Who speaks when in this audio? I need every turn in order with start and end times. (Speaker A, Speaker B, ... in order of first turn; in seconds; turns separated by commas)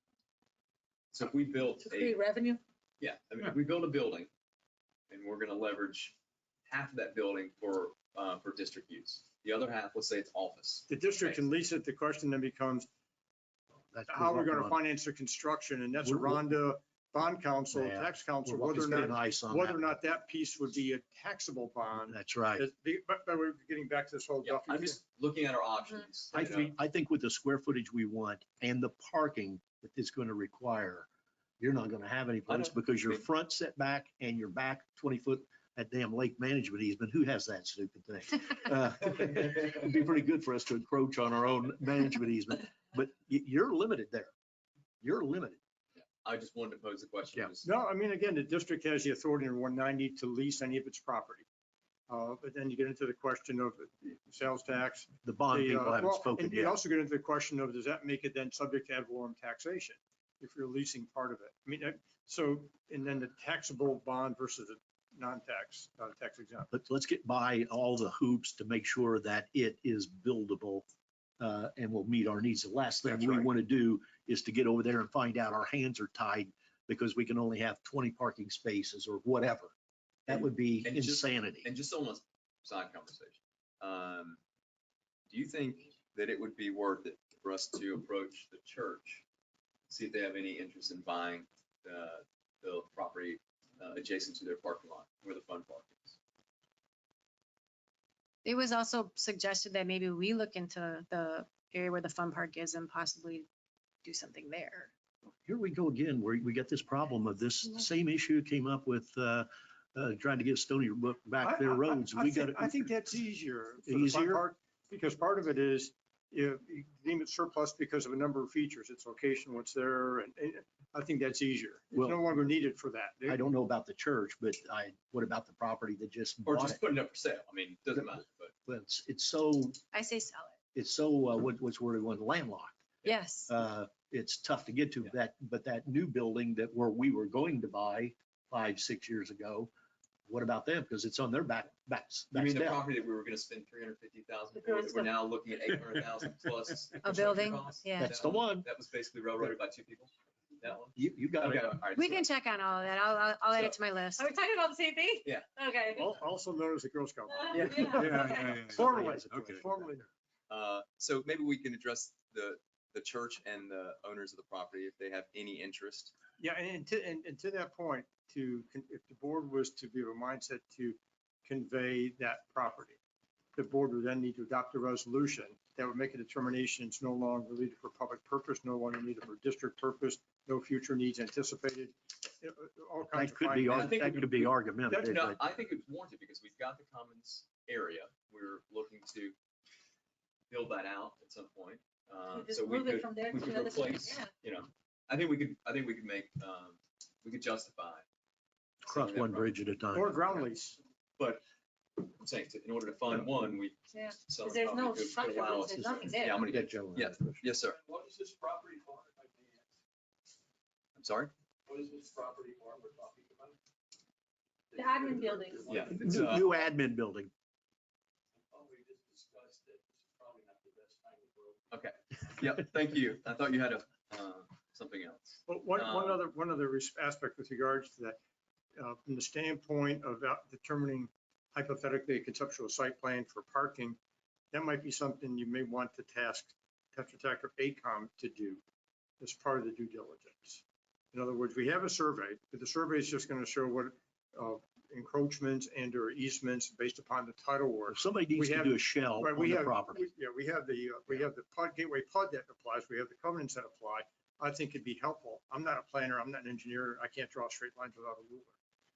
Speaker A: 1.1-2.2, Speaker B: 1.8-2.6, Speaker A: 3.0-4.3, Speaker A: 5.1-6.1, Speaker A: 6.7-11.4, Speaker C: 10.9-12.9, Speaker D: 13.9-14.8, Speaker C: 14.1-25.0, Speaker D: 16.0-16.4, Speaker D: 17.7-19.9, Speaker D: 22.1-22.6, Speaker A: 24.4-26.8, Speaker D: 26.3-31.1, Speaker D: 31.6-44.3, Speaker A: 32.5-33.2, Speaker D: 45.0-45.6, Speaker A: 46.2-47.7, Speaker C: 47.6-51.4, Speaker C: 52.1-66.7, Speaker D: 55.2-56.8, Speaker D: 66.7-70.8, Speaker D: 71.4-79.7, Speaker C: 73.0-73.5, Speaker D: 80.3-81.7, Speaker A: 80.3-84.4, Speaker A: 85.3-89.2, Speaker A: 89.9-96.1, Speaker E: 98.4-103.5, Speaker E: 104.0-104.9, Speaker D: 105.4-112.9, Speaker C: 111.4-123.5, Speaker D: 113.8-114.4, Speaker D: 121.9-122.2, Speaker D: 123.2-126.8, Speaker A: 126.5-128.5, Speaker D: 128.7-129.8, Speaker E: 129.9-130.5, Speaker D: 130.7-132.7, Speaker E: 133.0-133.5, Speaker D: 133.5-139.7, Speaker D: 140.3-142.8, Speaker A: 142.3-152.4, Speaker B: 144.6-145.1, Speaker E: 147.0-148.2, Speaker D: 148.0-148.7, Speaker D: 150.9-151.8, Speaker E: 151.9-154.3, Speaker A: 153.5-153.8, Speaker B: 154.2-156.1, Speaker C: 155.9-160.1, Speaker B: 157.5-157.9, Speaker A: 157.5-158.3, Speaker E: 157.9-158.5, Speaker D: 157.9-160.1, Speaker F: 158.0-159.1, Speaker A: 160.5-166.1, Speaker C: 166.4-173.0, Speaker C: 173.6-184.2, Speaker D: 183.1-185.4, Speaker A: 183.7-189.3, Speaker A: 190.5-198.0, Speaker B: 192.3-194.3, Speaker A: 198.8-199.5, Speaker D: 198.8-200.3, Speaker C: 199.9-200.8, Speaker A: 201.2-201.4, Speaker A: 202.0-207.8, Speaker B: 203.9-206.5, Speaker D: 205.7-207.4, Speaker F: 207.7-209.7, Speaker A: 210.9-211.3, Speaker F: 211.7-213.6, Speaker F: 214.7-215.9, Speaker B: 214.7-215.8, Speaker A: 215.7-216.5, Speaker D: 215.8-217.3, Speaker F: 218.5-221.5, Speaker A: 221.7-226.2, Speaker C: 225.5-228.2, Speaker C: 228.8-234.0, Speaker C: 234.5-238.6, Speaker C: 239.2-258.5, Speaker D: 247.9-250.1